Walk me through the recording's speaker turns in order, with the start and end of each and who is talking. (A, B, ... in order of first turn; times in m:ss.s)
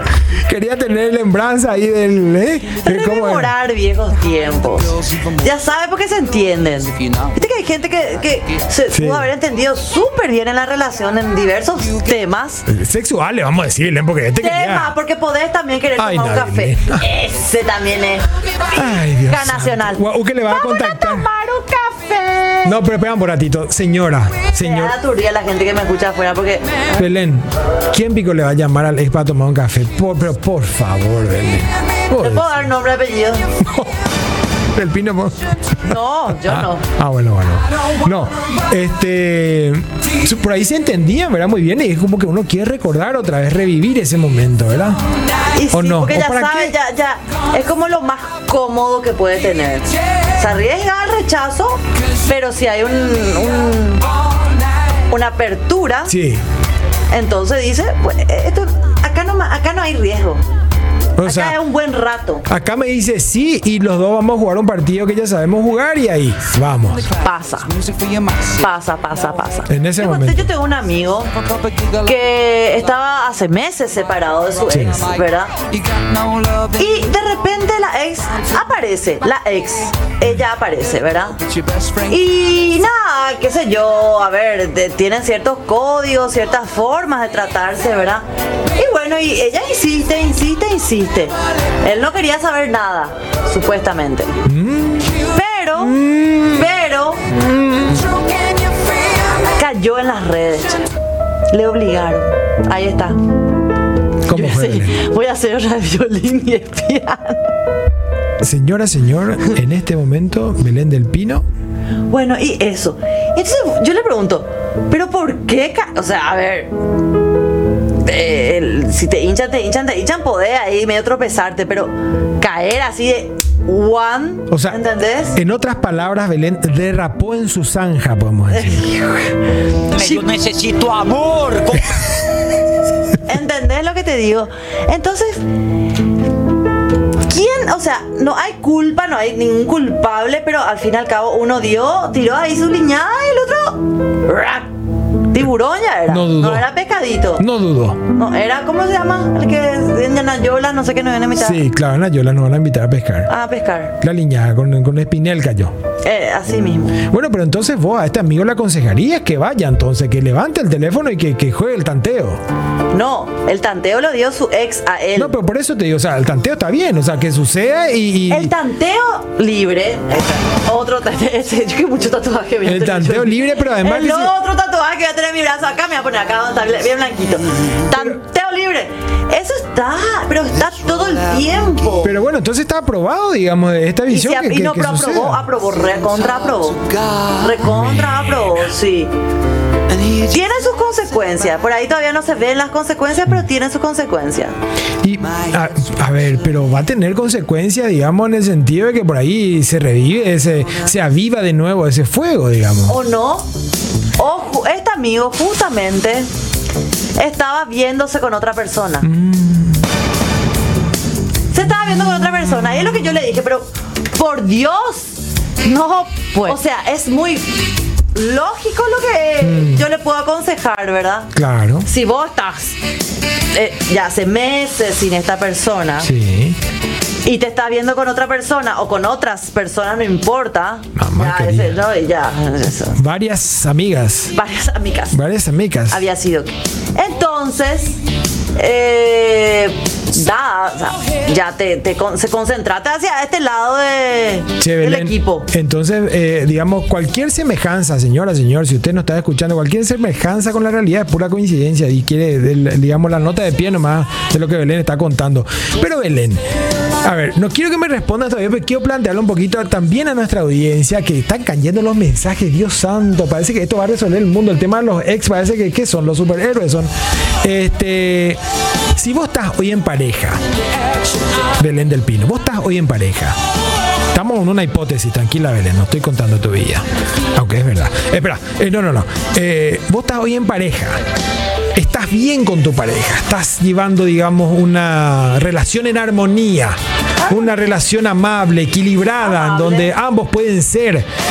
0:00.2-0:03.5 A
0:02.8-0:12.7 B
0:08.9-0:09.3 A
0:12.7-0:14.9 A
0:14.4-0:22.8 B
0:16.0-0:17.1 A
0:18.7-0:21.3 A
0:22.6-0:25.0 A
0:24.6-0:27.1 B
0:27.0-0:32.6 A
0:32.2-0:33.6 B
0:33.6-0:33.9 A
0:34.7-0:45.0 A
0:35.8-0:36.8 B
0:45.5-0:54.1 B
0:45.7-0:46.8 A
0:55.1-0:56.2 B
0:56.0-0:56.4 A
0:57.1-1:00.4 B
1:01.2-1:01.6 A
1:01.2-1:02.5 B
1:02.5-1:07.1 A
1:07.1-1:07.8 B
1:08.4-1:15.5 B
1:09.7-1:10.5 A
1:14.7-1:15.1 A
1:16.6-1:21.4 B
1:22.0-1:34.3 B
1:34.4-1:35.1 A
1:35.3-1:37.3 B
1:35.8-1:36.7 A
1:37.3-1:38.1 A
1:39.5-1:40.9 B
1:41.5-1:43.2 B
1:44.2-1:47.4 B
1:44.3-1:45.0 A
1:48.4-1:51.4 A
1:52.1-1:56.7 B
1:58.0-2:05.4 B
2:04.5-2:04.8 A
2:05.3-2:08.9 A
2:08.5-2:09.3 B
2:09.9-2:11.9 C
2:10.0-2:10.2 B
2:13.2-2:15.4 B
2:17.3-2:24.7 B
2:25.3-2:27.4 B
2:26.1-2:26.7 A
2:27.4-2:28.0 A
2:28.1-2:31.6 B
2:31.4-2:33.3 A
2:33.3-2:34.0 B
2:34.0-2:35.7 A
2:36.0-2:37.0 B
2:37.0-2:42.4 A
2:42.9-2:45.4 B
2:45.2-2:48.5 A
2:48.3-3:02.1 B
2:52.6-2:54.3 A
3:02.0-3:05.5 A
3:04.1-3:09.1 B
3:07.6-3:08.6 A
3:10.0-3:14.5 B
3:15.0-3:23.0 A
3:22.8-3:23.5 B
3:24.2-3:26.3 B
3:27.2-3:29.1 B
3:29.0-3:29.8 A
3:31.5-3:41.3 B
3:39.4-3:39.8 A
3:41.3-3:41.9 A
3:41.8-3:42.8 B
3:43.5-3:46.1 B
3:46.0-3:46.6 A
3:47.2-3:53.0 B
3:51.0-3:51.8 A
3:53.0-3:54.3 A
3:54.3-3:55.2 B
3:55.1-3:56.0 A
3:55.9-3:58.0 B
3:58.6-4:05.5 B
4:04.6-4:16.4 A
4:17.0-4:26.9 A
4:27.4-4:28.4 A
4:28.9-4:30.4 A
4:31.6-4:33.4 A
4:34.1-4:41.0 A
4:41.7-4:51.0 A
4:49.2-4:49.9 B